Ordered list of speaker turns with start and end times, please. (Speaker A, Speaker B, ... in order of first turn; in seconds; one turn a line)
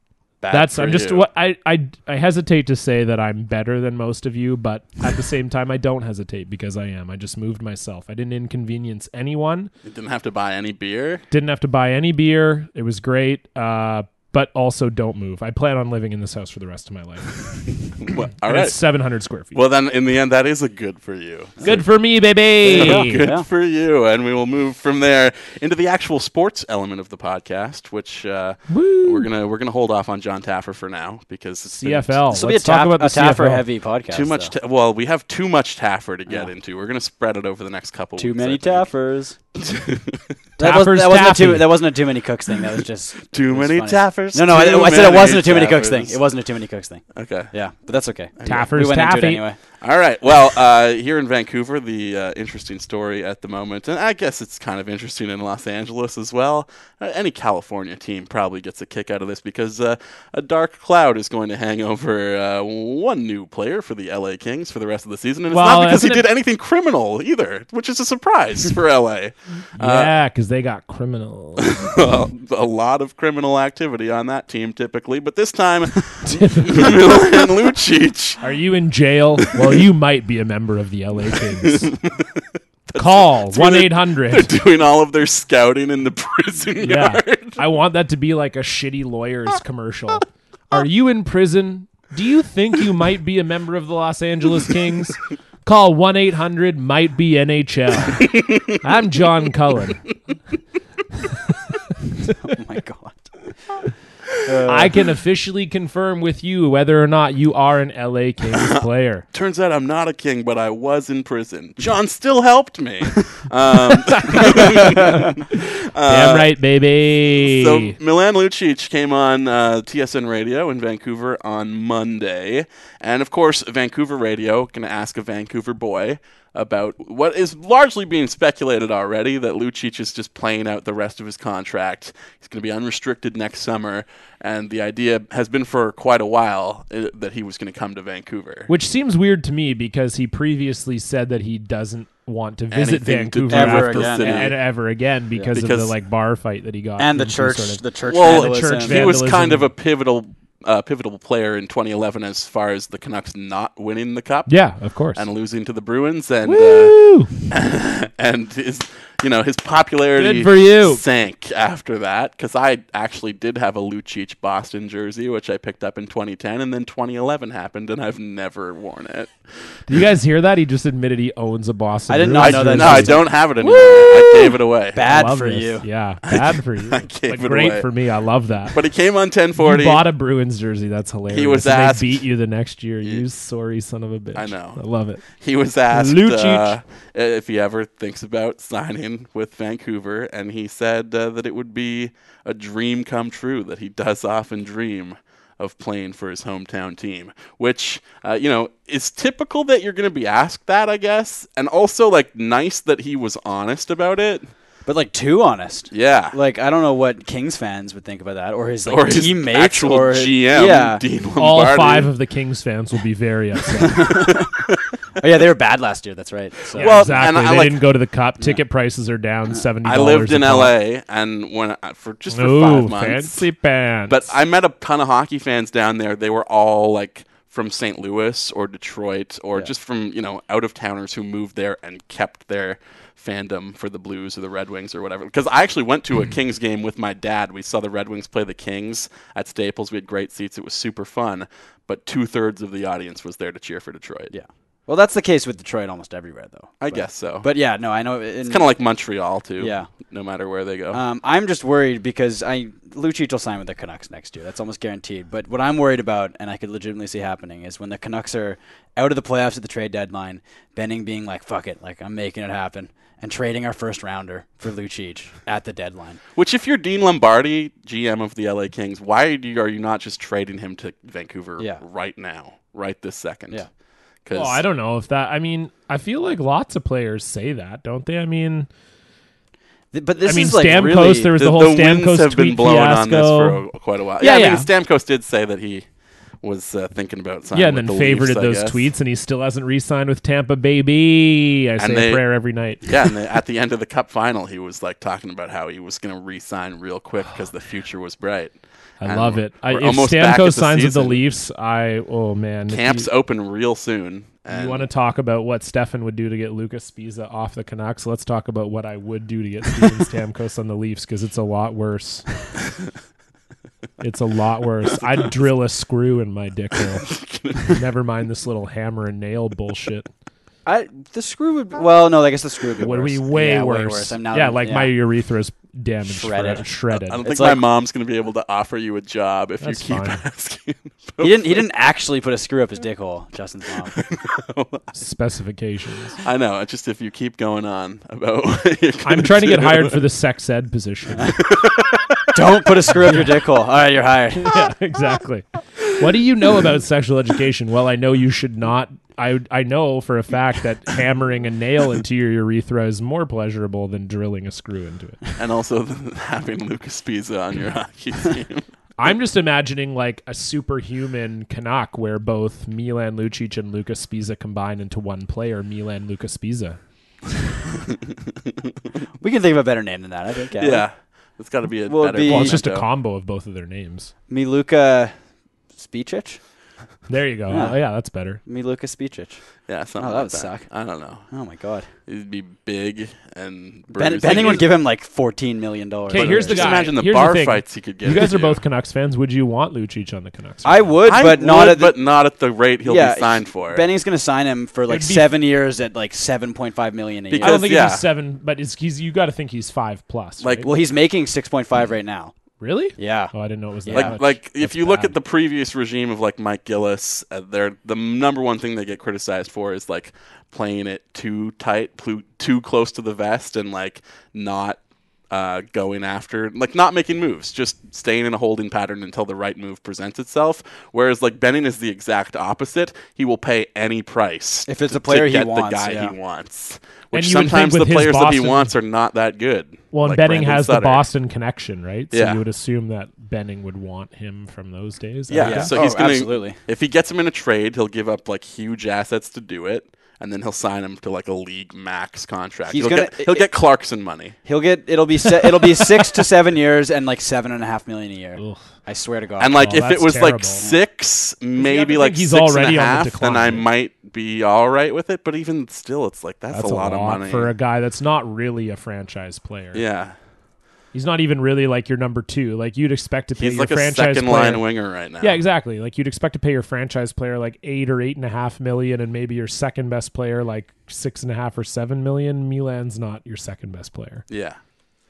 Speaker A: 0.4-1.3
Speaker B: 0.5-9.7
Speaker A: 9.8-11.2
Speaker B: 11.3-17.6
Speaker A: 18.0-18.8
Speaker B: 18.4-19.6
Speaker A: 19.5-21.9
Speaker B: 21.6-23.2
Speaker C: 22.6-23.4
Speaker A: 22.6-32.2
Speaker B: 28.7-29.3
Speaker B: 31.7-33.6
Speaker C: 32.3-34.5
Speaker A: 34.1-38.9
Speaker C: 38.2-39.4
Speaker A: 39.5-40.2
Speaker C: 40.6-49.6
Speaker B: 40.6-41.8
Speaker A: 43.3-46.2
Speaker A: 47.1-47.5
Speaker A: 48.4-48.8
Speaker B: 48.4-49.4
Speaker A: 49.8-70.1
Speaker B: 65.5-66.2
Speaker B: 69.8-71.9
Speaker A: 71.6-78.4
Speaker B: 76.2-77.0
Speaker B: 78.4-81.9
Speaker A: 81.6-87.6
Speaker B: 82.9-84.5
Speaker B: 86.8-100.0
Speaker C: 102.4-103.3
Speaker C: 104.4-105.0
Speaker B: 104.7-109.2
Speaker A: 108.5-116.5
Speaker B: 114.2-115.2
Speaker B: 116.0-118.0
Speaker A: 117.3-138.7
Speaker B: 138.7-149.7
Speaker A: 142.7-144.6
Speaker C: 143.5-144.5
Speaker A: 145.5-145.9
Speaker C: 147.0-149.1
Speaker A: 148.0-154.6
Speaker B: 154.5-155.2
Speaker A: 155.1-169.9
Speaker B: 156.4-157.3
Speaker B: 160.2-161.0
Speaker B: 169.9-173.2
Speaker C: 172.1-175.8
Speaker A: 172.4-175.1
Speaker B: 175.0-178.8
Speaker A: 176.3-177.9
Speaker A: 178.7-180.0
Speaker B: 179.6-185.2
Speaker A: 181.3-182.2
Speaker A: 184.3-184.8
Speaker A: 185.4-204.5
Speaker B: 185.9-186.7
Speaker C: 204.8-211.0
Speaker A: 205.9-206.3
Speaker A: 208.9-212.1
Speaker B: 211.4-214.2
Speaker C: 213.9-214.5
Speaker C: 215.2-217.2
Speaker A: 216.7-217.9
Speaker B: 216.8-220.7
Speaker A: 219.8-223.4
Speaker B: 222.3-224.3
Speaker A: 224.1-244.3
Speaker C: 244.3-248.7
Speaker A: 246.8-247.5
Speaker A: 248.4-251.0
Speaker C: 249.6-249.9
Speaker C: 250.9-266.2
Speaker A: 266.4-273.6
Speaker A: 274.2-274.6
Speaker B: 274.3-278.7
Speaker C: 279.9-281.3
Speaker B: 280.2-283.6
Speaker A: 281.4-285.9
Speaker B: 284.2-284.7
Speaker A: 286.4-288.9
Speaker B: 287.5-292.9
Speaker A: 291.8-292.2
Speaker A: 292.8-301.2
Speaker B: 299.0-303.1
Speaker A: 302.7-304.9
Speaker B: 304.5-312.2
Speaker B: 314.0-317.1
Speaker A: 317.0-317.8
Speaker B: 317.7-320.1
Speaker C: 320.6-324.9
Speaker B: 322.8-327.2
Speaker C: 326.1-326.7
Speaker A: 326.9-331.6
Speaker C: 327.2-327.6
Speaker B: 329.6-330.2
Speaker C: 331.2-334.0
Speaker A: 334.0-334.9
Speaker B: 334.9-336.2
Speaker A: 336.2-340.0
Speaker B: 339.0-341.4
Speaker A: 341.5-342.0
Speaker C: 342.3-344.6
Speaker B: 344.4-355.2
Speaker A: 355.4-358.7
Speaker B: 359.0-366.8
Speaker C: 369.2-370.9
Speaker A: 370.6-372.9
Speaker C: 371.9-372.6
Speaker B: 372.2-374.1
Speaker C: 374.3-375.1
Speaker C: 375.7-376.4
Speaker B: 377.1-378.4
Speaker C: 377.5-377.8
Speaker C: 378.4-379.4
Speaker A: 379.7-381.3
Speaker C: 379.9-380.7
Speaker C: 381.3-381.9
Speaker A: 382.1-384.8
Speaker C: 383.9-386.9
Speaker B: 386.1-390.9
Speaker A: 386.1-388.6
Speaker C: 390.6-392.0
Speaker A: 391.0-393.8
Speaker C: 392.8-397.7
Speaker B: 394.9-395.3
Speaker A: 397.3-398.0
Speaker B: 397.4-400.7
Speaker A: 400.4-400.7
Speaker C: 400.6-402.3
Speaker B: 402.6-405.1
Speaker C: 403.0-403.3
Speaker C: 403.9-404.1
Speaker A: 403.9-414.8
Speaker A: 415.3-431.1
Speaker C: 424.7-426.1
Speaker B: 427.1-428.7
Speaker B: 429.9-435.7
Speaker A: 432.1-432.4
Speaker A: 435.3-444.4
Speaker C: 435.4-436.6
Speaker C: 442.7-443.5
Speaker C: 444.4-449.8
Speaker B: 448.4-448.7
Speaker A: 449.4-457.5
Speaker B: 449.5-450.6
Speaker B: 451.6-453.7
Speaker B: 456.5-459.8
Speaker A: 459.7-460.1
Speaker B: 460.9-464.6
Speaker A: 463.4-465.4
Speaker B: 465.2-474.2
Speaker A: 474.3-474.6